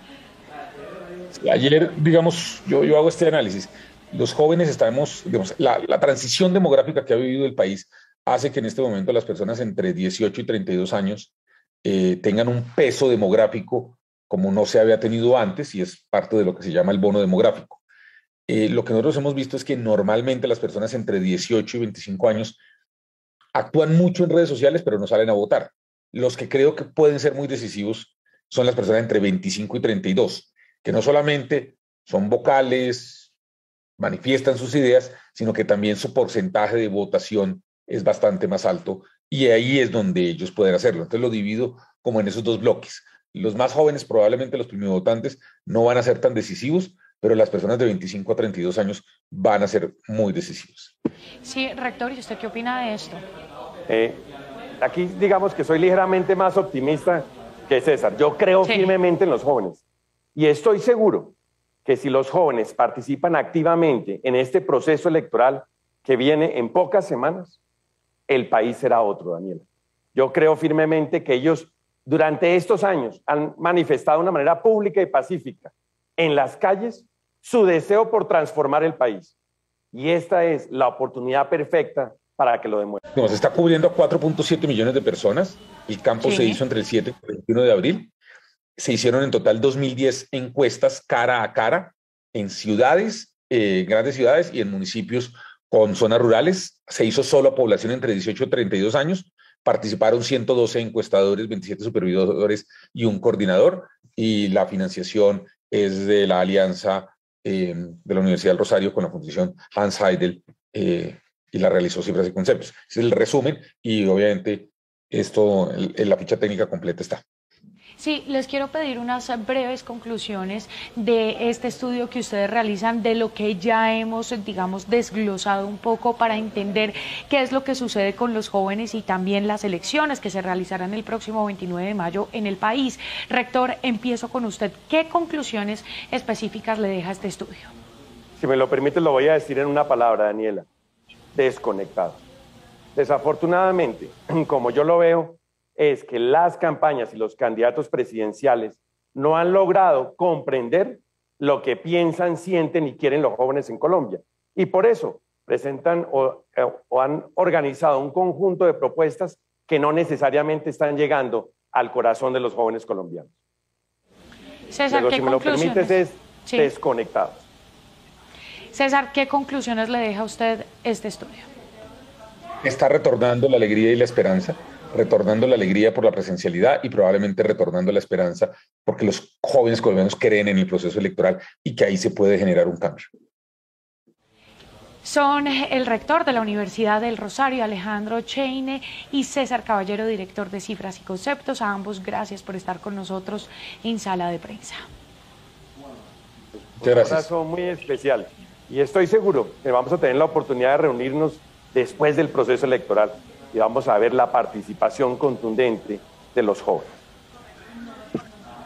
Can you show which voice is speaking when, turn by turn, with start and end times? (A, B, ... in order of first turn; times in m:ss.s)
0:01.4-0:11.3 A
0:11.8-0:17.8 A
0:18.5-0:22.6 A
0:23.5-0:33.3 A
0:34.0-0:50.9 A
0:51.4-0:53.2 B
0:53.9-0:54.2 C
0:54.8-0:59.8 C
0:58.6-0:58.9 B
1:00.4-1:01.3 C
1:01.8-1:07.6 C
1:08.3-1:19.3 C
1:19.9-1:23.0 C
1:23.2-1:28.1 A
1:26.2-1:26.6 B
1:28.8-1:57.2 A
1:58.0-2:17.7 B
2:18.4-2:20.7 C
2:21.4-2:22.2 C
2:23.0-2:43.3 C
2:44.7-2:46.7 B
2:44.9-2:47.4 C
2:48.7-2:51.5 B
2:52.6-3:03.1 A
3:05.0-3:14.8 B
3:16.8-3:17.3 A
3:16.8-3:27.0 C